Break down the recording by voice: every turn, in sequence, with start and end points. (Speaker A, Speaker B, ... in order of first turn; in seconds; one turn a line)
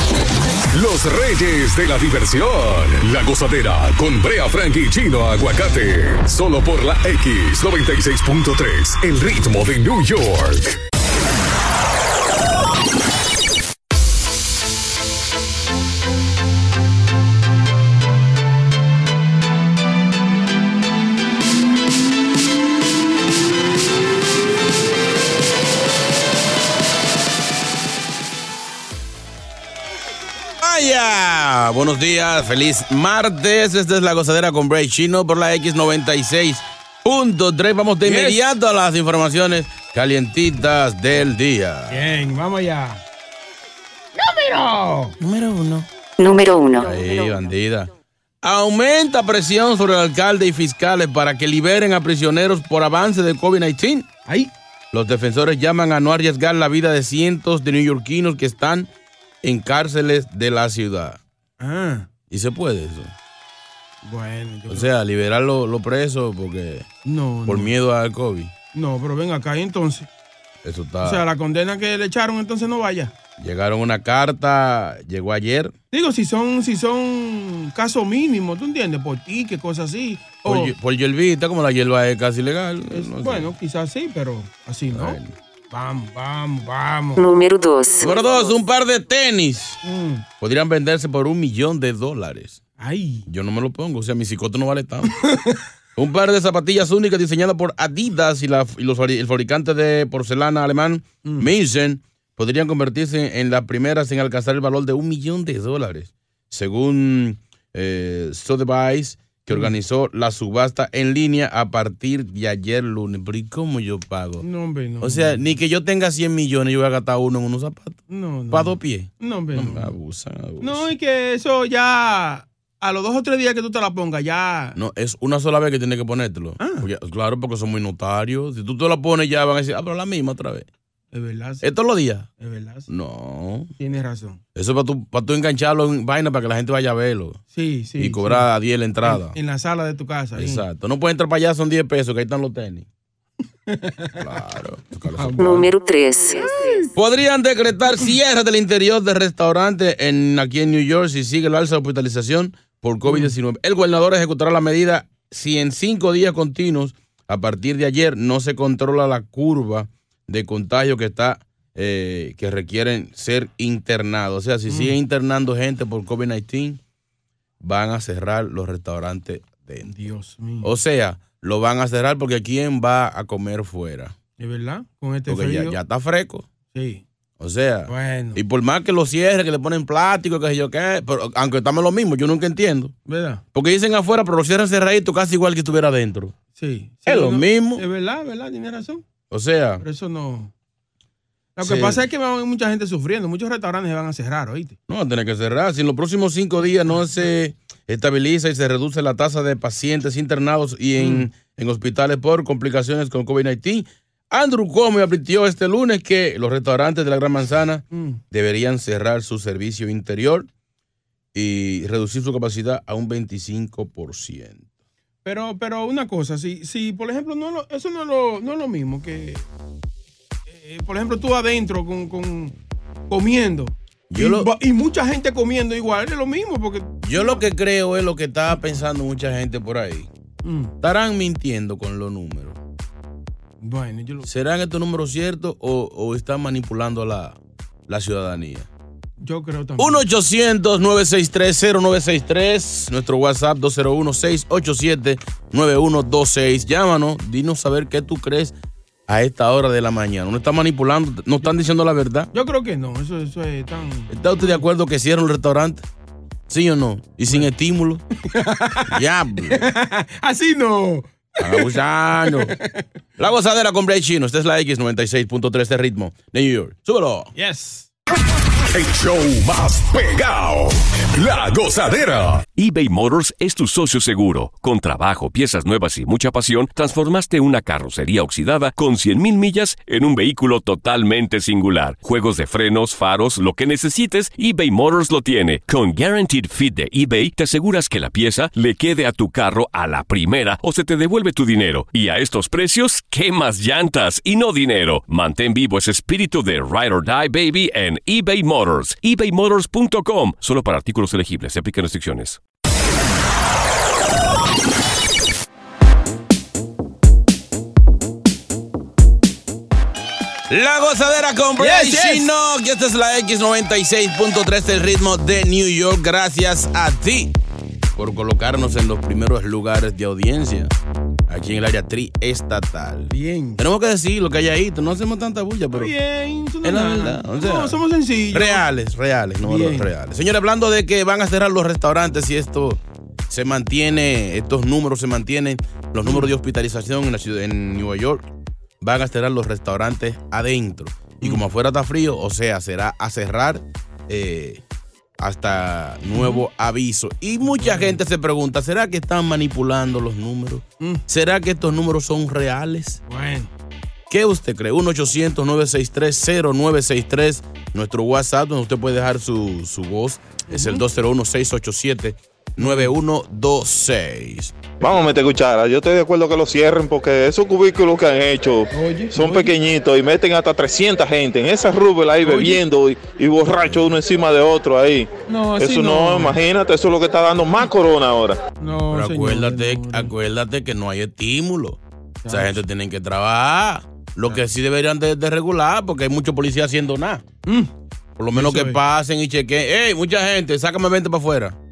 Speaker A: 0.7-10.8
Speaker B: 30.6-42.0
Speaker C: 38.0-38.4
Speaker C: 41.9-43.0
Speaker C: 44.2-45.1
Speaker B: 45.2-45.9
Speaker D: 46.2-47.3
Speaker B: 46.8-47.9
Speaker B: 48.4-54.1
Speaker B: 54.9-58.9
Speaker B: 59.4-61.2
Speaker C: 61.6-62.1
Speaker B: 62.3-63.1
Speaker C: 64.0-64.9
Speaker B: 64.7-66.9
Speaker C: 67.1-67.7
Speaker B: 67.5-68.5
Speaker C: 68.7-70.1
Speaker B: 70.6-71.3
Speaker C: 71.0-73.1
Speaker B: 73.4-75.8
Speaker C: 75.9-80.7
Speaker B: 80.5-83.5
Speaker C: 82.9-85.2
Speaker B: 84.9-85.3
Speaker C: 85.7-87.2
Speaker D: 87.2-88.2
Speaker B: 88.0-89.8
Speaker C: 89.8-90.3
Speaker B: 90.4-92.6
Speaker C: 92.8-93.3
Speaker B: 93.3-95.2
Speaker C: 95.2-95.6
Speaker B: 96.0-114.5
Speaker C: 101.2-101.5
Speaker C: 114.4-115.4
Speaker B: 115.0-118.0
Speaker C: 118.1-119.9
Speaker B: 118.5-120.9
Speaker C: 120.6-124.8
Speaker B: 124.8-130.7
Speaker C: 126.6-126.9
Speaker C: 131.1-131.7
Speaker B: 131.6-132.3
Speaker C: 132.4-132.9
Speaker B: 132.9-133.7
Speaker C: 133.8-134.4
Speaker B: 134.6-137.4
Speaker C: 137.5-138.5
Speaker B: 138.0-139.4
Speaker C: 139.0-140.6
Speaker B: 140.4-142.9
Speaker C: 143.7-144.3
Speaker B: 144.2-145.7
Speaker C: 145.1-145.6
Speaker D: 145.4-146.7
Speaker C: 146.6-146.8
Speaker B: 146.9-166.8
Speaker C: 153.1-153.3
Speaker C: 164.7-164.9
Speaker B: 167.6-169.9
Speaker C: 169.8-170.7
Speaker B: 170.6-174.2
Speaker C: 174.4-175.8
Speaker B: 175.3-176.5
Speaker C: 176.7-177.0
Speaker B: 177.4-182.9
Speaker C: 177.9-178.4
Speaker C: 183.1-183.4
Speaker B: 183.5-186.3
Speaker C: 186.6-189.0
Speaker B: 187.1-187.8
Speaker B: 189.3-189.8
Speaker C: 189.8-190.5
Speaker C: 191.6-194.8
Speaker B: 191.6-192.0
Speaker B: 194.9-210.5
Speaker C: 201.0-201.3
Speaker C: 207.9-208.2
Speaker B: 211.3-214.7
Speaker C: 215.2-219.4
Speaker C: 220.5-222.5
Speaker C: 223.1-227.4
Speaker B: 224.1-224.5
Speaker B: 227.0-230.1
Speaker C: 230.4-230.7
Speaker B: 230.8-232.6
Speaker C: 233.6-234.3
Speaker B: 234.3-238.7
Speaker C: 239.2-240.1
Speaker B: 239.8-248.6
Speaker B: 249.1-252.3
Speaker C: 252.3-254.6
Speaker B: 254.1-255.8
Speaker B: 256.5-258.0
Speaker C: 258.2-259.0
Speaker B: 258.9-259.7
Speaker C: 259.5-261.7
Speaker B: 261.4-262.6
Speaker C: 262.2-262.9
Speaker B: 263.2-267.3
Speaker C: 267.4-267.9
Speaker A: 268.7-272.4
Speaker E: 272.6-302.4
Speaker B: 310.5-317.3
Speaker C: 311.6-312.3
Speaker B: 318.0-320.7
Speaker B: 321.3-325.9
Speaker C: 323.1-323.6
Speaker C: 325.7-328.6
Speaker B: 326.6-327.8
Speaker B: 328.3-338.2
Speaker C: 329.4-329.9
Speaker C: 336.1-336.3
Speaker B: 338.8-344.6
Speaker B: 345.2-353.0
Speaker C: 346.1-346.4
Speaker C: 347.6-348.0
Speaker C: 353.1-353.5
Speaker B: 354.1-364.6
Speaker C: 360.5-360.8
Speaker C: 362.6-362.9
Speaker F: 364.8-378.4
Speaker C: 368.7-369.5
Speaker C: 372.2-372.6
Speaker C: 375.3-376.4
Speaker C: 378.6-380.1
Speaker B: 378.9-387.2
Speaker C: 382.2-382.6
Speaker C: 387.5-387.7
Speaker B: 388.2-391.6
Speaker C: 388.3-388.8